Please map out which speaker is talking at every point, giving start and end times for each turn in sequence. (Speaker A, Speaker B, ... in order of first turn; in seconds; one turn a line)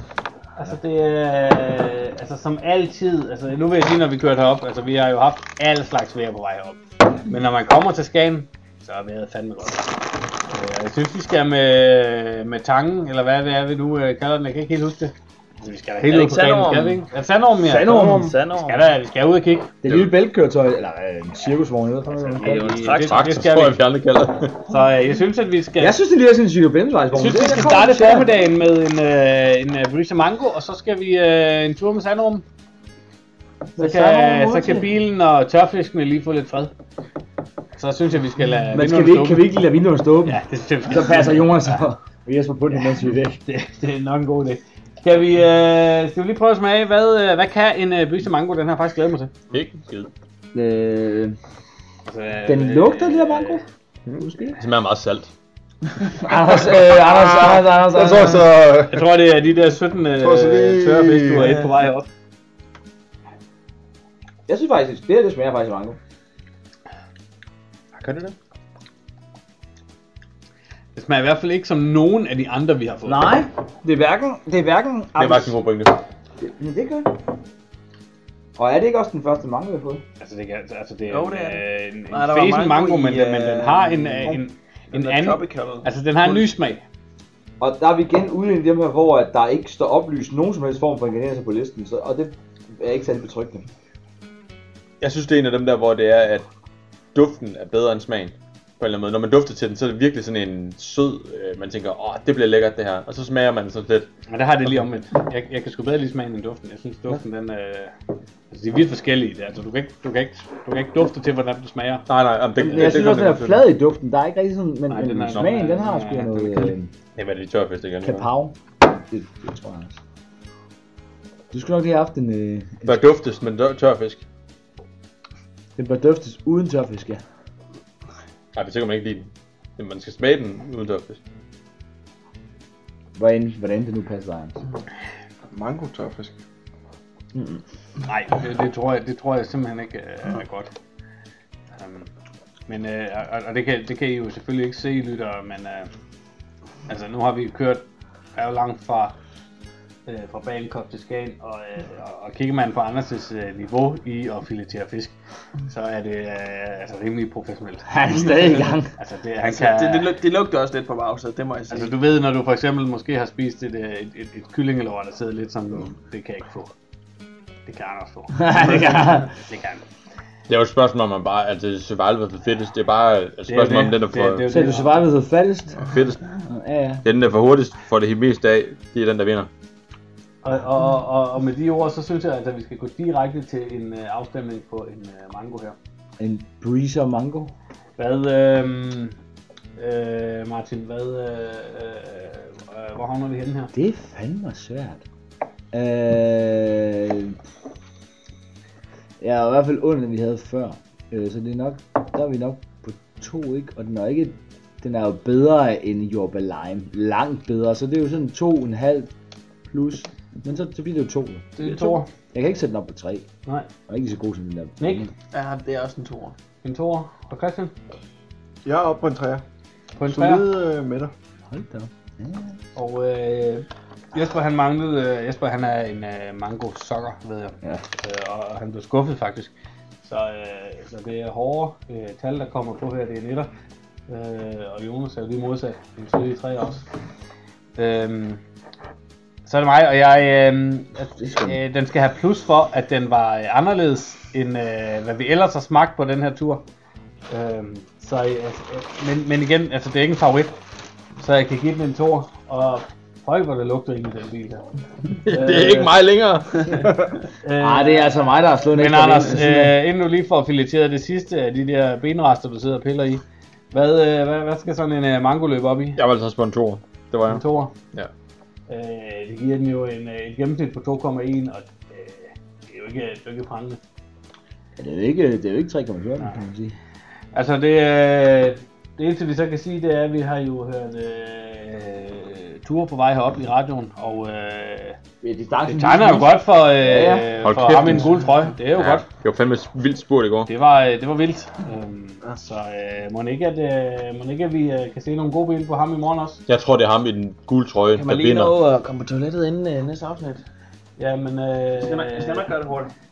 Speaker A: 0.6-9.9
Speaker A: 10.5-19.7
Speaker B: 16.1-17.0
Speaker C: 17.6-18.4
Speaker D: 17.9-18.4
Speaker B: 18.3-18.7
Speaker C: 19.8-23.0
Speaker E: 19.8-20.1
Speaker A: 22.4-23.8
Speaker B: 22.6-23.1
Speaker E: 23.0-24.7
Speaker A: 24.7-26.0
Speaker C: 25.8-28.3
Speaker A: 27.1-32.4
Speaker C: 33.8-34.9
Speaker A: 33.8-36.7
Speaker A: 37.8-39.5
Speaker C: 38.7-43.4
Speaker A: 40.2-41.7
Speaker A: 43.5-49.3
Speaker E: 49.5-50.1
Speaker C: 50.5-51.4
Speaker A: 52.1-53.6
Speaker C: 52.5-53.6
Speaker C: 54.2-54.6
Speaker E: 54.6-55.3
Speaker C: 56.0-58.5
Speaker D: 56.6-59.0
Speaker A: 58.9-62.1
Speaker D: 60.2-61.6
Speaker C: 64.5-66.0
Speaker E: 67.9-68.3
Speaker A: 70.9-73.4
Speaker C: 73.0-75.6
Speaker E: 75.2-76.0
Speaker C: 76.4-77.1
Speaker C: 78.5-80.0
Speaker A: 80.2-86.8
Speaker B: 81.1-84.4
Speaker B: 84.9-86.5
Speaker C: 87.6-93.7
Speaker E: 95.0-96.5
Speaker E: 97.1-104.1
Speaker A: 104.3-107.9
Speaker A: 108.5-112.0
Speaker E: 112.1-113.6
Speaker C: 112.6-116.9
Speaker A: 114.9-116.8
Speaker E: 117.2-118.3
Speaker C: 118.0-120.0
Speaker C: 121.5-123.0
Speaker E: 122.8-124.2
Speaker C: 125.8-127.2
Speaker E: 128.6-131.2
Speaker C: 133.2-134.6
Speaker D: 135.5-136.4
Speaker C: 137.3-137.6
Speaker A: 138.1-140.7
Speaker A: 141.8-142.1
Speaker A: 142.7-145.9
Speaker A: 146.9-149.2
Speaker A: 150.1-155.1
Speaker A: 155.7-160.1
Speaker C: 157.9-158.9
Speaker B: 159.4-161.9
Speaker A: 161.7-166.7
Speaker A: 167.7-169.8
Speaker C: 168.3-169.3
Speaker E: 170.5-174.5
Speaker A: 173.5-175.1
Speaker C: 174.5-175.9
Speaker E: 175.8-176.2
Speaker C: 176.4-177.0
Speaker E: 177.0-179.5
Speaker A: 180.4-185.8
Speaker C: 186.2-187.5
Speaker A: 188.0-189.1
Speaker A: 189.8-193.7
Speaker C: 193.7-195.1
Speaker C: 195.7-197.3
Speaker C: 199.2-209.1
Speaker C: 209.7-211.5
Speaker A: 211.6-212.1
Speaker C: 212.3-213.3
Speaker C: 213.9-215.1
Speaker A: 214.8-215.1
Speaker B: 215.3-216.3
Speaker A: 216.6-217.7
Speaker D: 218.6-219.4
Speaker A: 220.0-220.4
Speaker D: 220.1-221.1
Speaker C: 221.5-222.6
Speaker A: 222.8-233.5
Speaker A: 234.1-236.8
Speaker A: 237.8-238.4
Speaker A: 239.4-246.6
Speaker C: 241.1-241.6
Speaker A: 247.3-250.6
Speaker A: 251.2-254.6
Speaker E: 255.1-256.9
Speaker A: 255.2-255.9
Speaker A: 257.4-266.0
Speaker C: 257.6-259.8
Speaker E: 265.9-268.1
Speaker A: 267.2-267.7
Speaker A: 268.7-273.8
Speaker C: 274.8-276.8
Speaker A: 277.3-285.0
Speaker C: 285.2-287.3
Speaker A: 285.7-289.1
Speaker E: 287.4-290.5
Speaker A: 290.5-296.4
Speaker E: 296.5-298.6
Speaker B: 297.9-300.4
Speaker A: 301.0-302.5
Speaker B: 301.8-302.9